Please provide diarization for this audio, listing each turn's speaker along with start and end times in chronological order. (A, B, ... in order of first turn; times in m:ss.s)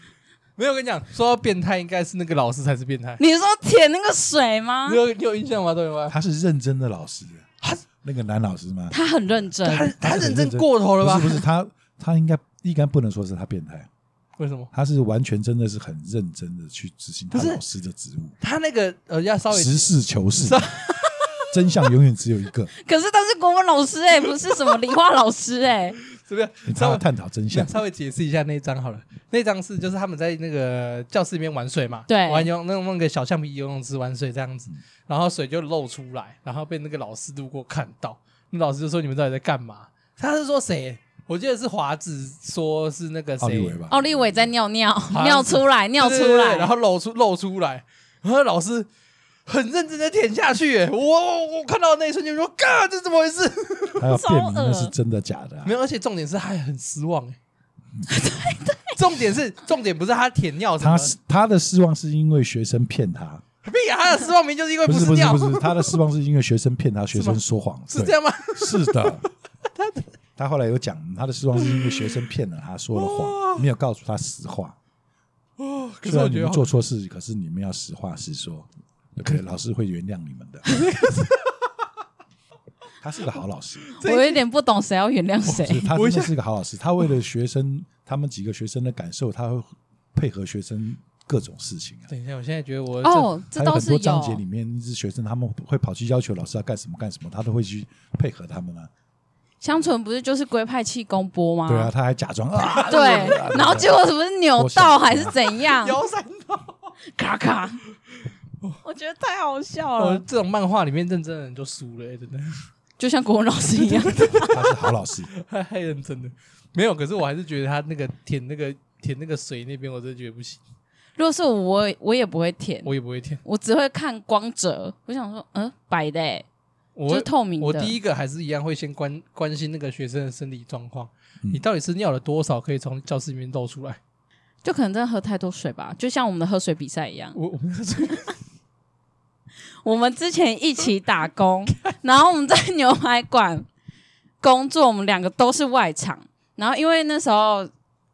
0:00.6-0:03.2 A
0:03.2-0:05.0 B
0:04.9-0:06.2 A
0:06.1-0:07.5 C
0:08.0-0:09.0 C
0:08.9-0:10.0 B
0:09.6-0:11.4 A
0:10.0-0:13.9 C
0:14.4-0:14.7 A
0:14.7-0:18.4 C
0:17.3-0:17.6 A
0:18.4-0:19.8 A
0:19.5-0:20.6 C
0:20.4-0:21.6 A
0:21.5-0:22.7 C
0:22.8-0:26.0 B
0:26.1-0:43.8 A
0:26.7-0:27.7 C
0:32.1-0:32.5 B
0:43.4-0:44.5 C
0:43.9-0:46.7 B
0:45.1-0:48.9 A
0:49.5-0:54.1 A
0:54.0-0:55.7 C
0:54.1-0:54.9 B
0:55.6-0:57.4 A
0:58.1-0:58.9 B
0:58.9-1:01.1 A
1:00.8-1:03.4 C
1:03.6-1:06.0 A
1:04.8-1:09.3 C
1:07.1-1:10.1 A
1:10.4-1:14.8 C
1:11.6-1:12.2 A
1:12.9-1:13.7 A
1:15.6-1:16.7 A
1:16.0-1:20.8 C
1:20.7-1:21.6 A
1:23.0-1:23.9 C
1:24.0-1:24.4 A
1:24.0-1:25.9 B
1:25.5-1:26.4 A
1:25.6-1:32.1 C
1:32.1-1:33.4 A
1:33.0-1:34.4 B
1:33.6-1:38.9 C
1:39.6-1:41.9 B
1:41.7-1:44.0 C
1:42.6-1:43.8 A
1:42.9-1:46.0 B
1:44.6-1:45.4 C
1:45.6-1:46.9 A
1:47.2-1:47.8 B
1:48.8-1:50.2 B
1:50.0-1:52.7 A
1:53.0-1:54.6 B
1:53.8-2:00.6 A
1:54.5-1:55.3 C
2:01.2-2:02.9 B
2:02.8-2:03.4 A
2:03.4-2:06.4 B
2:07.0-2:14.0 A
2:07.1-2:08.0 B
2:14.6-2:17.4 B
2:17.4-2:18.4 A
2:19.8-2:23.7 B
2:24.4-2:27.7 B